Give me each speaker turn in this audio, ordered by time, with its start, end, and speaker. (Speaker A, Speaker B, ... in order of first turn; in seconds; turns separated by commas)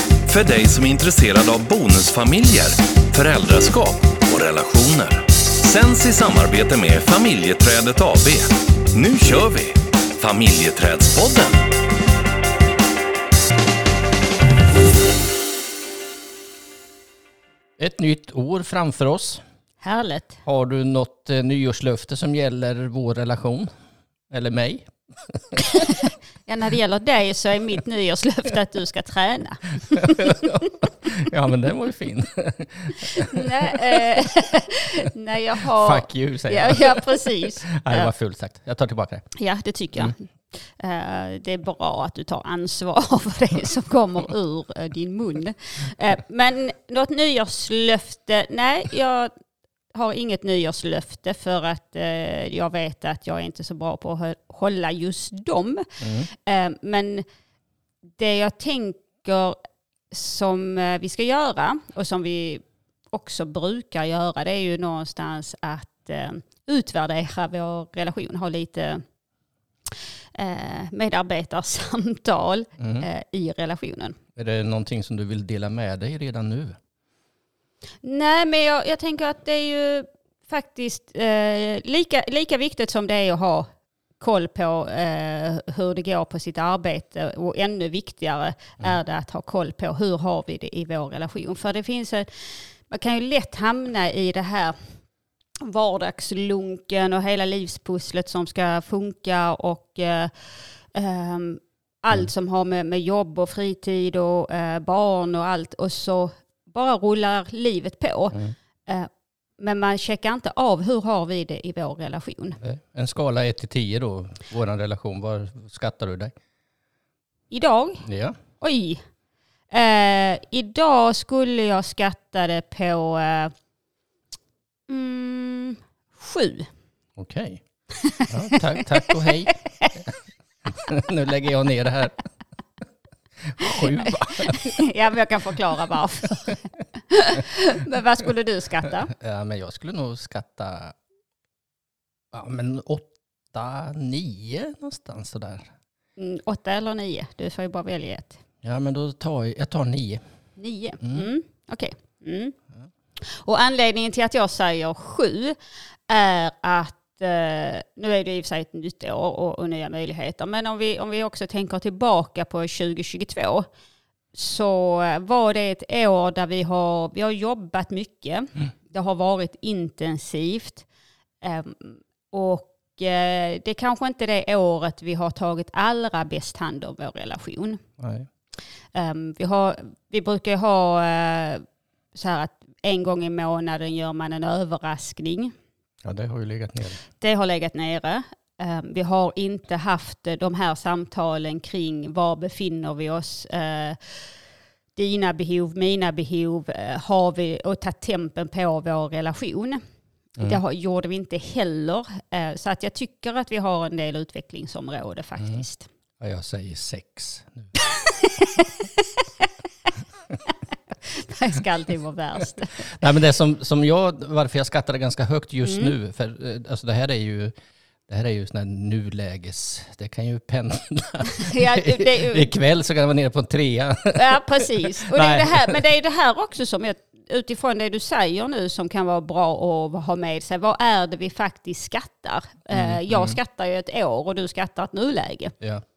Speaker A: 0.2-11.7, Speaker B: 17.8-19.4, Speaker C: 19.8-20.4, Speaker B: 20.4-23.7, Speaker B: 24.3-25.6, Speaker C: 26.4-30.4, Speaker B: 30.0-33.8, Speaker C: 33.1-38.1, Speaker B: 35.7-39.3, Speaker C: 39.3-49.3, Speaker C: 49.9-57.2, Speaker B: 56.0-56.3, Speaker C: 58.2-59.6, Speaker C: 60.1-69.0, Speaker C: 70.3-74.2, Speaker B: 72.8-73.1, Speaker B: 74.3-76.8, Speaker C: 78.0-83.7, Speaker C: 84.2-92.2, Speaker C: 92.9-94.7, Speaker C: 95.6-112.6, Speaker B: 112.6-116.3, Speaker C: 117.5-118.0, Speaker B: 118.0-118.3, Speaker C: 118.6-119.0, Speaker C: 119.7-123.5, Speaker C: 124.9-126.7, Speaker B: 127.2-127.6, Speaker B: 128.3-130.1, Speaker C: 129.0-129.9, Speaker B: 130.7-132.2, Speaker B: 133.5-134.8, Speaker C: 134.4-139.1, Speaker B: 139.1-140.9, Speaker B: 142.3-145.7, Speaker C: 146.2-148.4, Speaker B: 148.6-150.2, Speaker C: 150.6-152.6, Speaker C: 153.2-155.6, Speaker C: 156.1-163.7, Speaker C: 164.3-170.9, Speaker C: 171.4-177.8, Speaker B: 178.0-178.3, Speaker C: 178.9-185.5, Speaker B: 186.0-187.0, Speaker C: 187.2-194.3, Speaker C: 194.9-199.8, Speaker C: 200.4-205.9, Speaker B: 206.2-207.7, Speaker C: 207.8-209.5, Speaker C: 211.0-213.0, Speaker B: 213.0-217.5, Speaker C: 215.6-215.9, Speaker B: 218.1-225.8, Speaker C: 221.3-222.5, Speaker C: 224.1-235.5, Speaker B: 232.7-233.4